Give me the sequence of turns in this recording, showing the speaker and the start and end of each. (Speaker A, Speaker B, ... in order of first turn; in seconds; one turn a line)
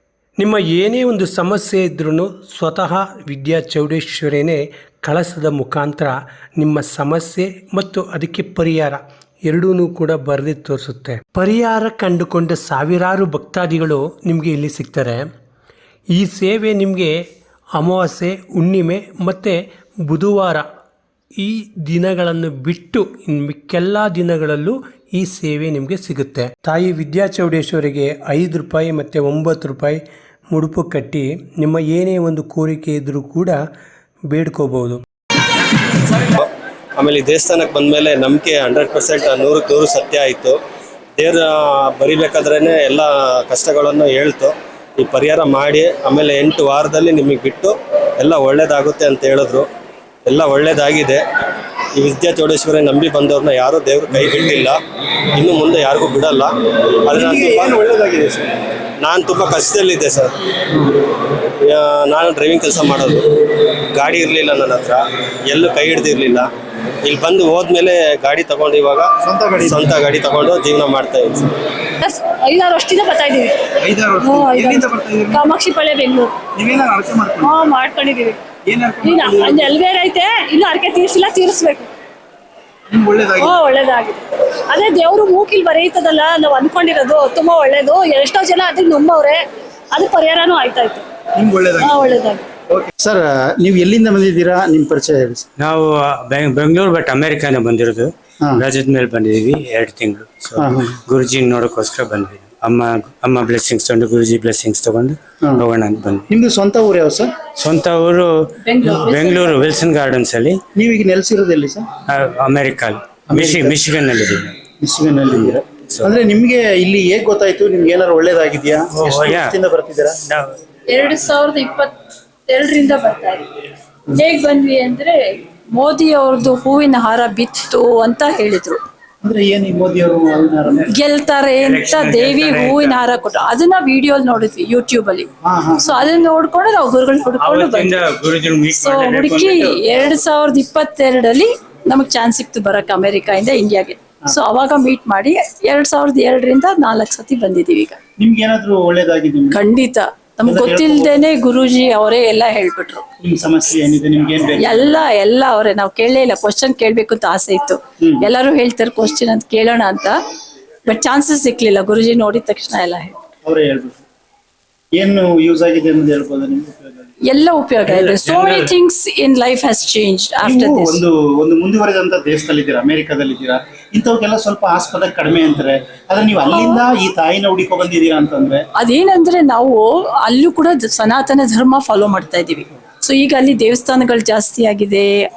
Speaker A: 0.4-15.3
Speaker A: 16.1-17.2
Speaker A: 17.8-20.7
Speaker A: 21.4-30.0
Speaker A: 30.5-33.6
Speaker A: 34.3-35.0
Speaker B: 36.4-40.6
Speaker B: 41.2-49.7
Speaker B: 50.3-51.2
Speaker B: 52.0-54.8
Speaker B: 55.4-57.8
Speaker C: 57.1-58.5
Speaker B: 59.0-60.4
Speaker B: 61.6-63.3
Speaker B: 63.9-66.5
Speaker B: 67.0-71.5
Speaker C: 69.2-69.9
Speaker D: 72.0-73.5
Speaker C: 73.8-75.5
Speaker D: 74.2-76.4
Speaker C: 76.6-77.5
Speaker D: 77.4-78.5
Speaker C: 78.7-79.7
Speaker D: 79.0-81.9
Speaker C: 82.9-83.6
Speaker D: 83.4-89.4
Speaker D: 89.9-91.0
Speaker C: 91.4-91.9
Speaker D: 91.8-92.5
Speaker C: 92.7-95.5
Speaker E: 95.6-106.3
Speaker C: 100.6-101.0
Speaker C: 106.3-107.3
Speaker E: 107.6-110.6
Speaker F: 108.6-109.7
Speaker C: 110.8-111.9
Speaker E: 112.1-114.5
Speaker C: 113.3-113.8
Speaker C: 114.8-120.2
Speaker E: 115.4-116.1
Speaker E: 119.0-119.6
Speaker F: 120.9-121.9
Speaker F: 122.5-123.5
Speaker F: 124.2-128.8
Speaker C: 129.2-130.9
Speaker F: 130.9-138.0
Speaker E: 131.6-133.0
Speaker C: 135.4-135.9
Speaker E: 137.4-139.8
Speaker F: 138.7-148.0
Speaker C: 148.2-149.6
Speaker F: 149.5-153.0
Speaker C: 150.5-151.2
Speaker C: 153.2-155.0
Speaker F: 154.6-160.2
Speaker C: 158.0-158.3
Speaker F: 160.8-163.2
Speaker C: 163.4-164.0
Speaker C: 165.0-167.1
Speaker F: 167.2-171.0
Speaker E: 167.9-168.7
Speaker C: 170.4-178.7
Speaker F: 178.8-185.1